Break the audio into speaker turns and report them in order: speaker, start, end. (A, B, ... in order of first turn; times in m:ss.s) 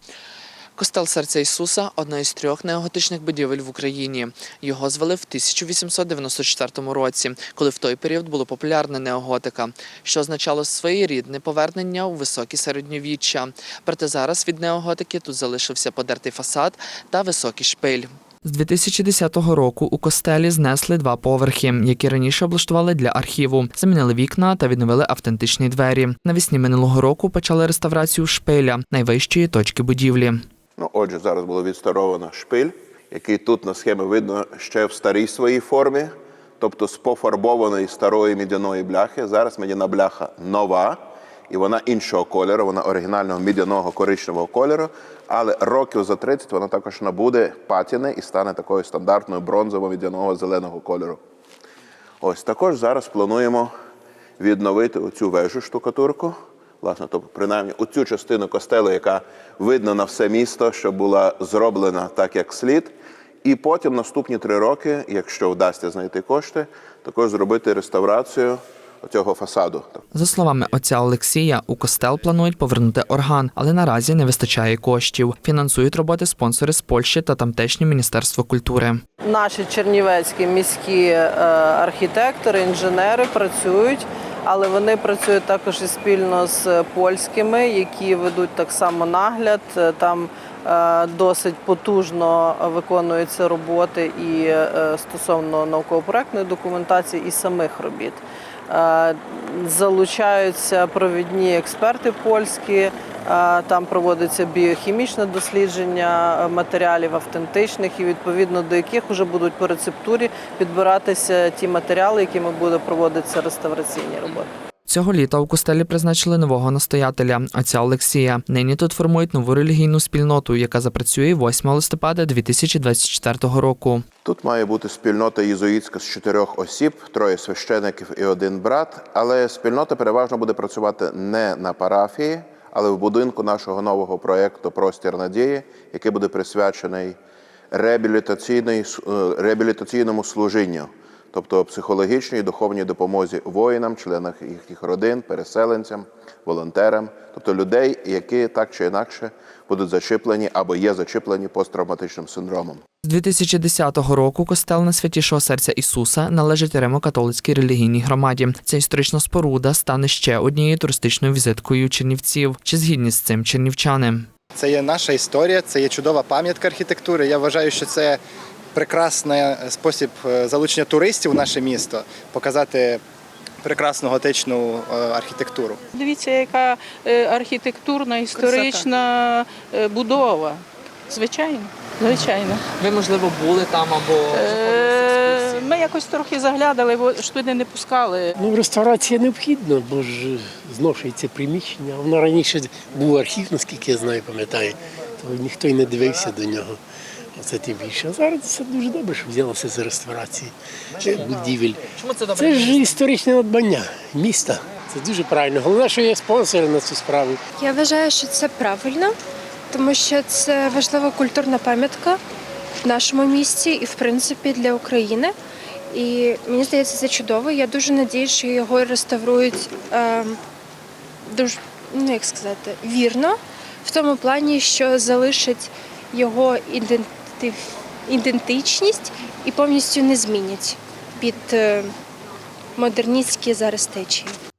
0:00.8-0:30.4 A
0:30.8-0:51.2 B
0:52.2-0:53.7 B
0:54.4-1:02.9 B
1:03.4-1:10.0 B
1:10.1-1:19.0 A
1:19.2-1:54.5 C
1:54.9-2:04.0 A
2:04.2-2:17.2 B
2:17.7-2:32.8 B
2:33.0-2:44.3 A
2:44.6-2:48.2 D
2:48.8-2:53.0 D
2:53.6-2:55.8 D
2:55.9-3:02.6 E
3:02.8-3:05.6 A
3:04.3-3:08.3 E
3:08.4-3:16.8 F
3:17.4-3:21.8 F
3:22.3-3:27.4 F
3:27.6-3:29.1 G
3:29.7-3:32.2 G
3:32.8-3:35.3 G
3:35.9-3:40.4 G
3:41.3-3:47.6 G
3:48.1-3:51.9 G
3:52.8-3:54.4 G